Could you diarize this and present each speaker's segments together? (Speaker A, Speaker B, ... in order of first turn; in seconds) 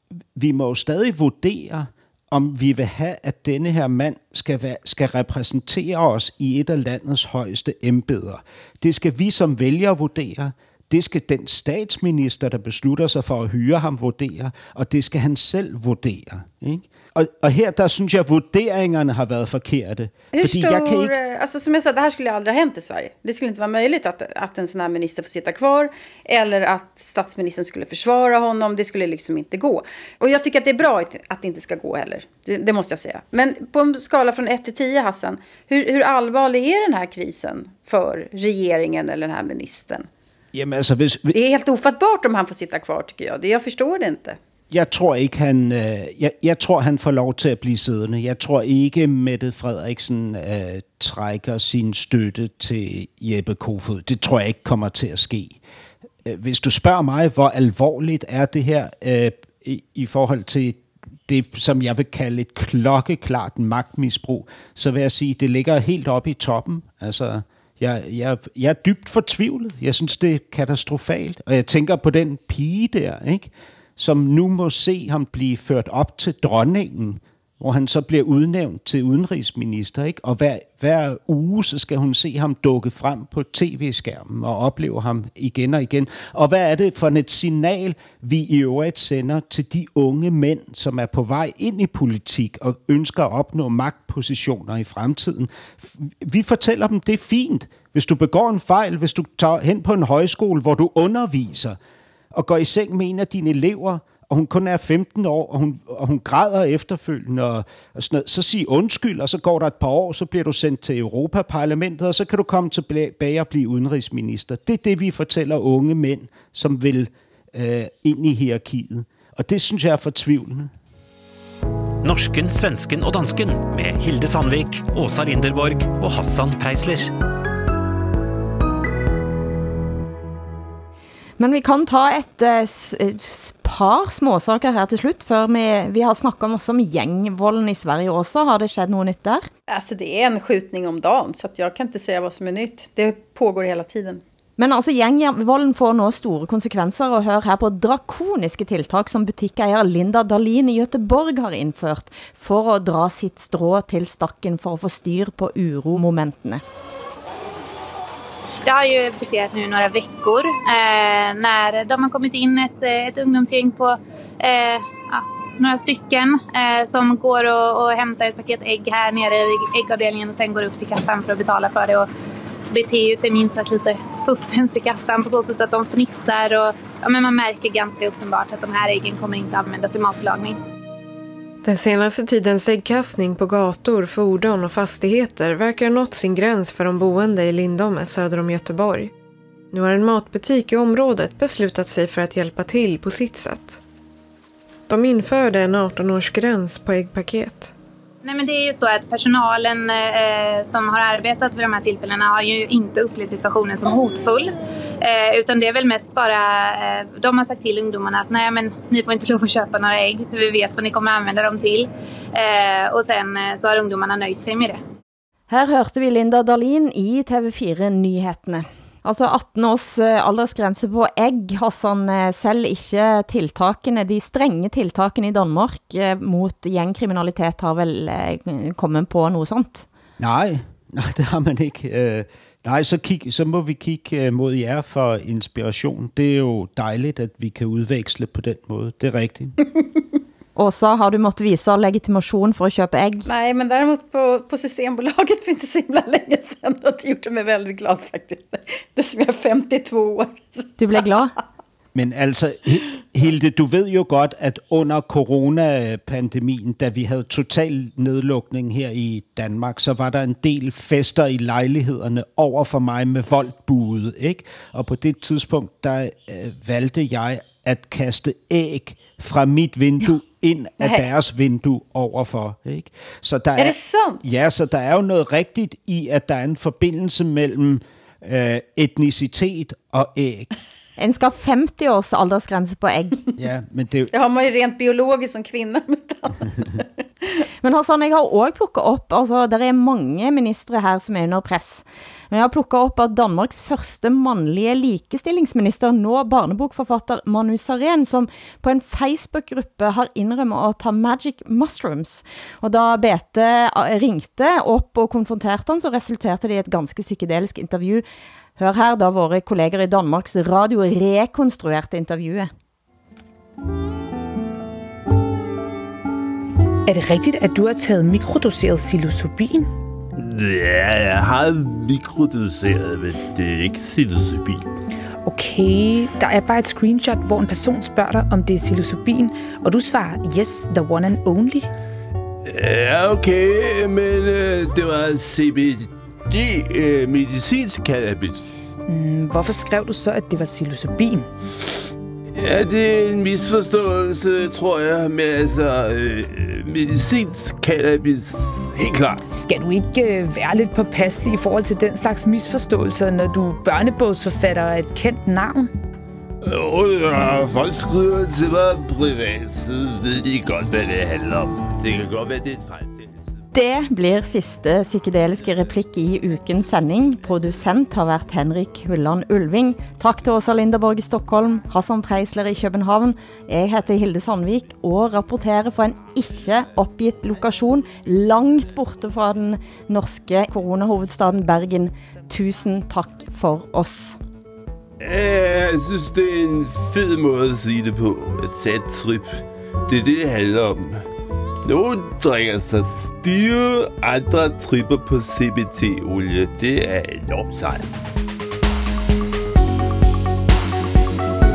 Speaker A: 0.3-21.1, 40.5-41.4, 44.7-55.6, 56.2-101.8, 102.3-120.7, 230.2-239.6, 251.9-280.5, 283.4-284.1
Speaker B: 20.3-40.0, 41.3-44.4, 139.7-144.2, 243.3-250.7, 273.6-274.2, 284.1-287.3
Speaker C: 122.0-127.1
Speaker D: 131.4-139.4, 144.6-156.6, 215.5-229.9, 240.6-243.3, 250.8-251.3, 281.0-283.2, 287.6-308.0, 308.6-312.5, 363.5-384.2
Speaker E: 158.7-172.1, 172.7-180.6, 198.2-214.8
Speaker F: 181.6-189.1, 189.7-193.8, 194.9-197.7
Speaker G: 316.9-319.7, 325.2-331.7, 338.9-341.3, 349.2-355.7
Speaker H: 320.1-324.7, 332.4-338.6, 342.4-349.2, 356.4-363.3, 385.0-391.0, 391.6-397.9